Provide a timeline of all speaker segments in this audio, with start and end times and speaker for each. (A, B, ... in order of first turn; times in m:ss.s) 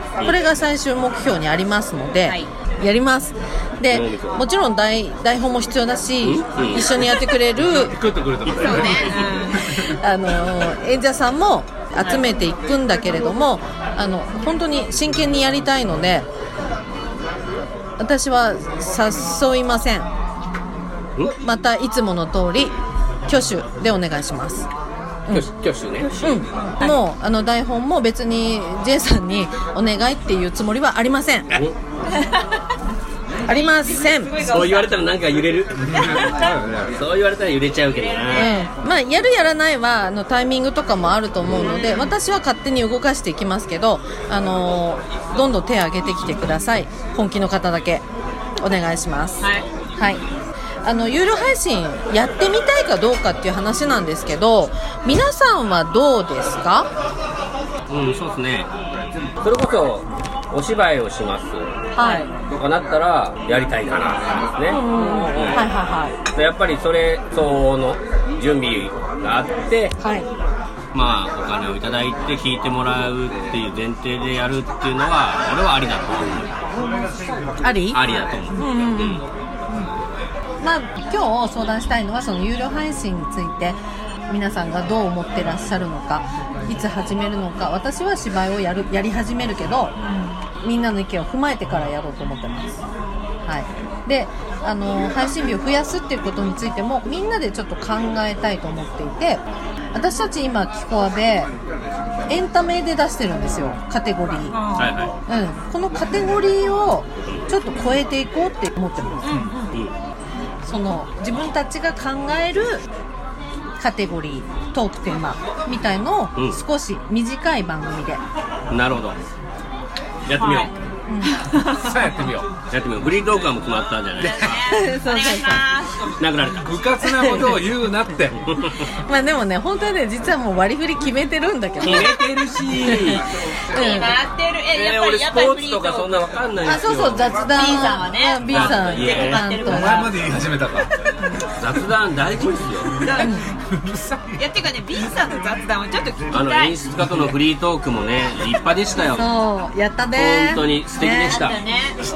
0:00.2-0:00.4 A
0:00.2-0:07.9 B
0:03.9-0:04.4 A
0:06.2-0:07.2 A
0:07.5-0:09.4 C
0:08.4-0:09.3 A
0:08.5-0:09.8 D
0:09.6-0:16.3 B
0:18.0-0:20.1 B
0:21.4-0:22.7 B
0:23.3-0:24.7 B
0:25.3-0:26.9 A
0:26.2-0:31.6 B
0:26.6-0:27.0 D
0:32.1-0:32.5 D
0:33.4-0:34.9 D
0:33.4-0:34.3 B
0:34.4-0:38.5 A
0:35.7-0:37.0 C
0:35.9-0:36.6 D
0:38.0-0:38.7 D
0:38.3-0:48.0 B
0:41.5-0:41.9 A
0:41.6-0:42.1 D
0:48.6-0:49.4 B
0:50.8-0:56.9 B
0:57.9-0:58.7 A
0:59.4-1:01.6 A
1:01.9-1:02.3 B
1:02.0-1:02.3 D
1:02.5-1:05.7 A
1:04.7-1:06.2 B
1:04.9-1:05.6 D
1:06.3-1:09.9 A
1:10.0-1:10.3 B
1:10.9-1:16.6 A
1:17.6-1:18.0 B
1:17.9-1:19.2 A
1:18.6-1:19.2 B
1:20.6-1:23.8 B
1:24.3-1:29.9 B
1:30.0-1:30.4 D
1:30.6-1:32.8 B
1:33.4-1:39.4 B
1:39.9-1:41.5 B
1:42.3-1:44.6 B
1:44.5-1:44.9 D
1:44.8-1:45.1 A
1:45.3-1:49.2 B
1:49.2-1:49.7 D
1:50.6-1:52.8 B
1:53.8-1:58.2 B
1:58.7-1:59.2 A
2:00.2-2:00.7 A
2:00.4-2:00.7 D
2:01.1-2:01.4 B
2:01.2-2:02.0 D
2:01.6-2:02.5 C
2:02.7-2:04.6 A
2:04.2-2:04.7 C
2:04.2-2:06.1 D
2:04.6-2:05.6 B
2:06.2-2:06.7 A
2:06.6-2:08.6 C
2:07.2-2:07.5 B
2:08.4-2:08.9 A
2:09.0-2:12.2 B
2:11.8-2:13.3 A
2:13.7-2:16.1 D
2:13.7-2:14.1 B
2:14.7-2:17.5 A
2:16.6-2:20.0 B
2:17.5-2:20.2 D
2:18.5-2:19.5 A
2:19.6-2:20.9 C
2:21.6-2:23.1 A
2:23.0-2:23.4 D
2:23.2-2:23.4 B
2:23.7-2:24.4 C
2:24.4-2:26.7 D
2:26.3-2:29.3 A
2:27.0-2:27.3 C
2:29.2-2:31.4 B
2:30.1-2:31.6 A
2:31.1-2:32.0 D